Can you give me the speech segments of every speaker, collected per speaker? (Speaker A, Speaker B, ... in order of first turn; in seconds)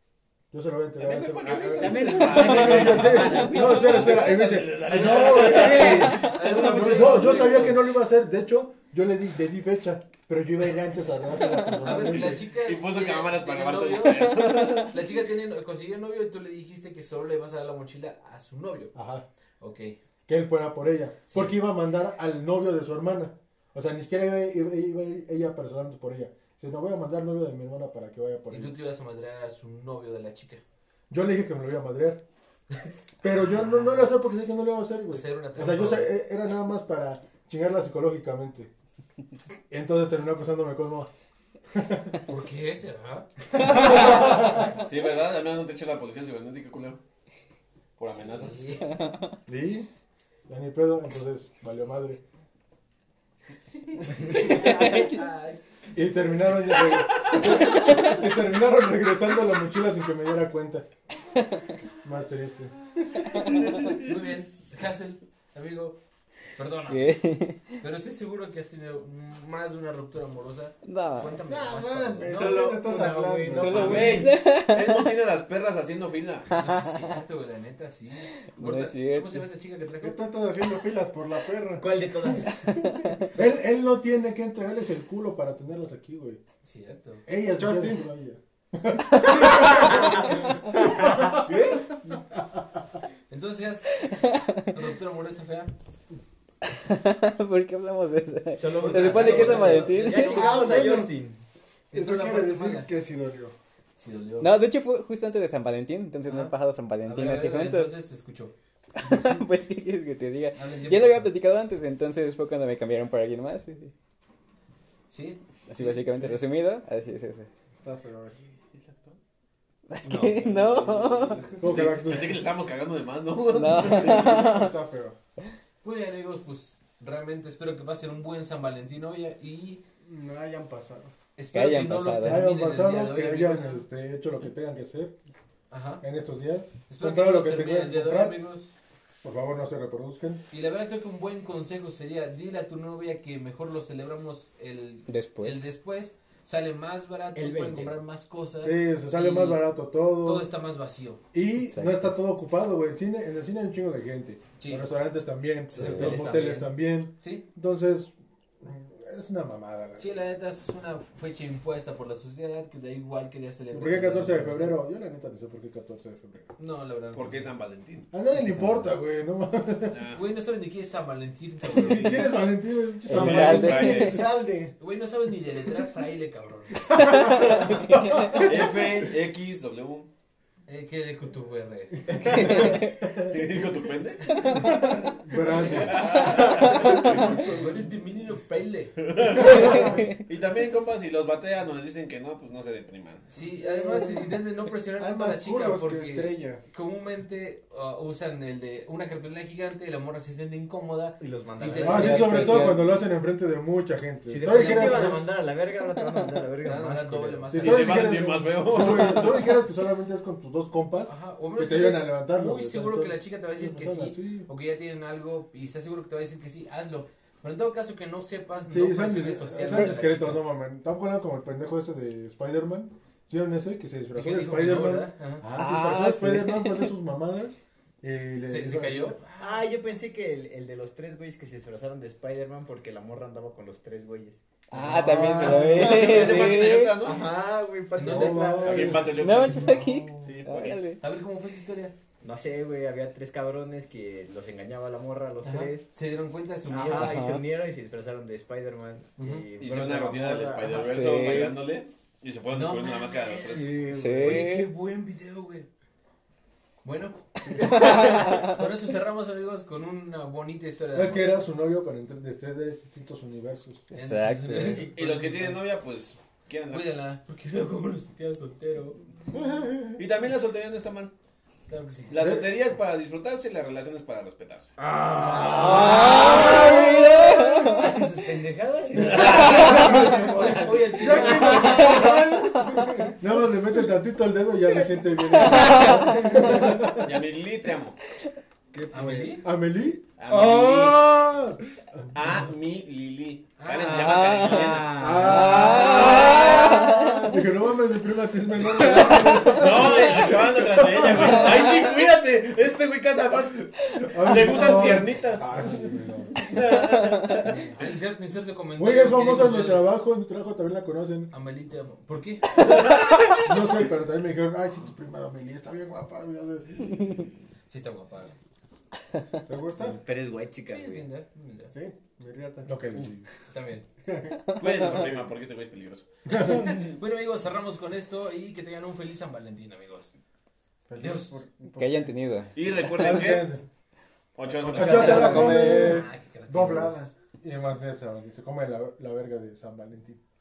Speaker A: 0.5-12.4, 18.9-19.3, 20.3-28.7, 31.1-32.2, 33.2-38.7, 39.7-41.1, 41.7-42.2, 43.7-44.7, 49.5-49.9, 50.5-52.2, 55.9-60.9, 62.0-62.7, 83.3-86.4, 87.3-91.5, 92.1-92.6, 121.6-122.4, 132.2-135.1, 136.0-138.4, 139.2-140.4, 148.6-150.5, 151.3-160.1, 163.7-166.6, 168.1-170.0, 171.8-173.8, 184.6-186.2, 201.8-205.3, 207.5-214.5, 218.7-229.2, 238.0-239.6, 260.9-263.9, 272.2-272.5, 275.5-276.6, 279.4-280.5, 281.0-281.8, 283.2-287.2, 288.7-290.0, 291.1-291.4, 295.0-296.3, 297.2-301.7, 304.1-306.4, 308.8-311.3, 313.4-317.2, 322.6-323.2, 332.9-333.6, 334.6-336.1, 337.4-340.2
Speaker B: 1.0-6.4, 12.5-14.9, 43.8-47.0, 48.0-48.7, 63.5-64.0, 73.7-76.5, 118.6-119.2, 120.5-124.5, 167.1-168.1, 169.9-170.2, 171.8-172.2, 173.1-174.3, 178.3-180.1, 183.3-184.2, 185.6-187.4, 189.0-193.2, 207.6-209.6, 235.5-237.3, 238.6-240.8, 249.6-254.0, 264.8-266.9, 269.9-271.1, 272.1-274.7, 276.0-276.7, 278.9-280.1, 286.9-288.0, 290.2-291.1, 292.1-296.7, 299.0-305.5, 306.4-307.7, 324.6-326.9, 332.5-333.5, 334.3-335.3
Speaker C: 1.4-4.5, 72.2-74.3, 81.8-82.6, 91.4-91.9, 98.6-101.4, 147.3-147.9, 155.7-156.7, 201.2-202.6, 204.2-207.5, 229.4-234.4, 234.9-239.6, 242.2-245.9, 246.7-251.1, 253.4-254.4, 275.5-277.0, 278.4-279.7, 290.3-290.7, 293.9-296.4, 319.8-321.1, 334.8-335.4
Speaker D: 5.5-7.9, 11.8-18.9, 19.6-20.0, 21.3-21.6, 28.5-30.6, 33.4-34.1, 35.1-36.1, 42.3-44.4, 48.1-49.0, 53.9-55.6, 63.9-66.0, 66.5-67.2, 67.8-72.5, 76.5-80.2, 86.6-87.2, 93.3-94.1, 94.7-95.7, 98.7-100.5, 101.9-102.9, 104.0-104.6, 106.2-108.5, 110.5-111.3, 115.1-116.4, 120.0-120.9, 125.8-129.8, 131.4-133.8, 135.7-136.0, 136.9-138.7, 140.5-151.2, 154.6-154.9, 157.2-157.4, 160.0-164.8, 166.6-167.5, 170.1-172.3, 174.8-177.7, 180.7-182.7, 187.3-189.8, 193.3-202.6, 206.6-208.1, 211.1-220.4, 224.1-225.4, 228.5-229.6, 234.8-236.1, 237.9-238.5, 241.0-241.9, 245.4-247.2, 249.2-249.4, 252.5-255.7, 256.8-261.4, 263.9-265.6, 266.7-269.0, 271.7-272.2, 275.4-276.6, 277.6-282.1, 288.9-289.4, 293.6-294.5, 307.7-309.9, 311.3-312.9, 317.7-318.3, 320.6-321.7, 323.5-323.9, 326.3-330.1, 331.0-331.4, 334.9-337.0
Speaker E: 48.8-49.3, 54.4-55.2, 66.9-67.8, 70.8-71.4, 73.5-75.1, 76.6-77.0, 78.5-79.4, 82.6-83.2, 94.0-94.7, 96.7-100.5, 104.4-107.9, 109.0-113.9, 115.7-117.5, 119.9-121.4, 123.5-124.7, 131.5-132.5, 145.1-145.7, 151.7-152.1, 155.9-156.2, 168.4-168.9, 173.1-174.3, 176.9-178.5, 182.2-182.9, 184.3-184.6, 201.8-202.9, 225.5-226.9, 234.7-237.0, 239.2-241.0, 246.9-247.4, 250.7-251.6, 253.9-254.7, 257.8-258.5, 264.0-264.9, 275.9-277.7, 285.5-286.3, 294.1-297.1, 331.8-333.2, 334.9-335.9
Speaker F: 71.4-74.3, 80.0-81.9, 87.5-88.2, 100.1-101.2, 101.9-103.5, 117.7-118.4, 121.6-121.9, 124.0-125.2, 130.0-131.1, 173.1-174.8, 185.7-187.8, 189.6-190.0, 193.4-194.4, 195.0-196.6, 234.9-235.8, 238.9-240.1, 257.6-258.2, 269.3-269.9, 275.6-277.7, 279.0-283.3, 285.4-286.8, 288.8-289.2, 295.2-297.3, 304.7-306.2, 319.4-320.0, 321.7-322.8, 324.0-324.4, 330.9-332.1, 334.8-337.1